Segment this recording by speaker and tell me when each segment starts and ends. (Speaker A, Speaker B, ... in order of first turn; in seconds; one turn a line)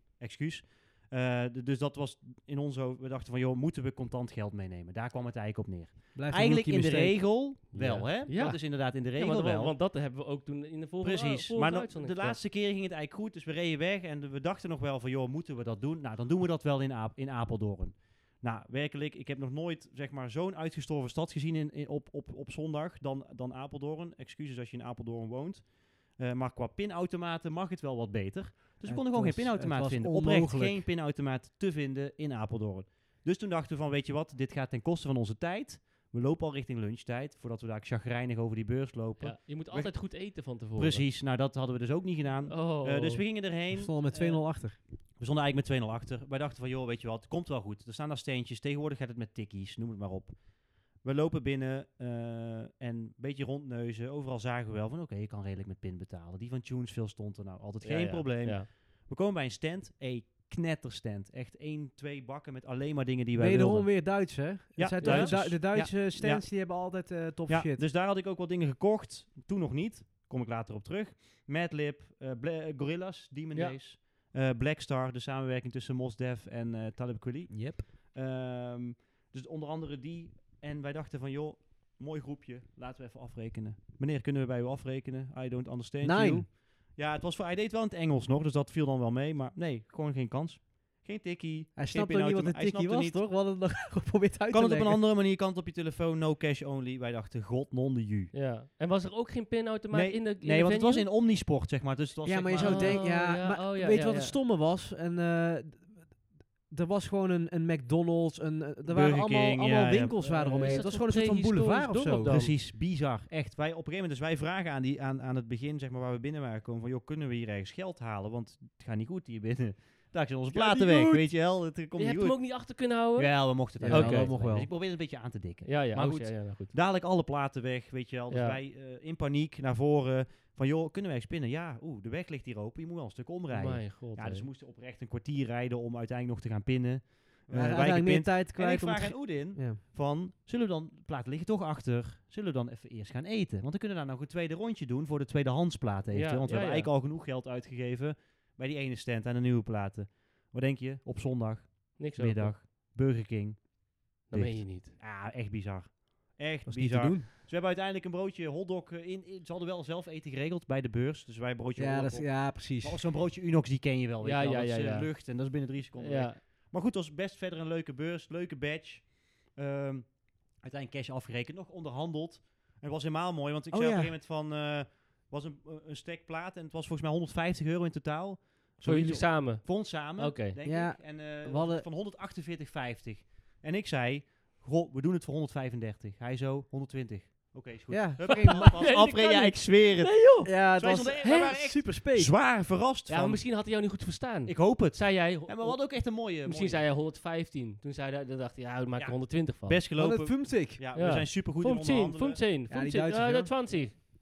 Speaker A: 0.2-9.8
Speaker B: 6.1-7.3
Speaker C: 7.7-12.4
Speaker A: 11.0-66.9
Speaker B: 28.8-30.8
Speaker C: 39.2-41.0
Speaker C: 42.5-43.4
Speaker B: 43.7-44.8
Speaker C: 57.8-58.7
Speaker B: 63.4-67.8
Speaker C: 65.0-65.6
Speaker A: 67.5-93.2
Speaker B: 77.5-77.8
Speaker B: 86.0-86.5
Speaker B: 91.8-95.0
Speaker A: 94.5-98.3
Speaker C: 98.3-101.1
Speaker A: 99.9-103.0
Speaker B: 102.2-112.3
Speaker C: 102.6-104.4
Speaker A: 108.9-110.8
Speaker C: 110.2-112.5
Speaker A: 112.3-193.4
Speaker C: 120.5-124.3
Speaker B: 123.8-124.7
Speaker C: 125.6-126.7
Speaker C: 128.3-128.6
Speaker C: 133.5-134.5
Speaker B: 137.5-139.8
Speaker C: 146.1-146.9
Speaker C: 152.0-152.6
Speaker C: 154.3-154.9
Speaker B: 156.7-157.3
Speaker B: 161.8-163.0
Speaker C: 164.2-166.4
Speaker B: 173.7-174.1
Speaker C: 178.8-180.6
Speaker B: 180.6-181.9
Speaker B: 187.9-188.8
Speaker C: 188.3-190.5
Speaker B: 190.4-192.3
Speaker C: 191.2-191.7
Speaker C: 193.1-199.8
Speaker A: 194.4-196.9
Speaker A: 199.0-202.4
Speaker B: 199.9-200.8
Speaker C: 200.9-203.9
Speaker B: 202.7-203.5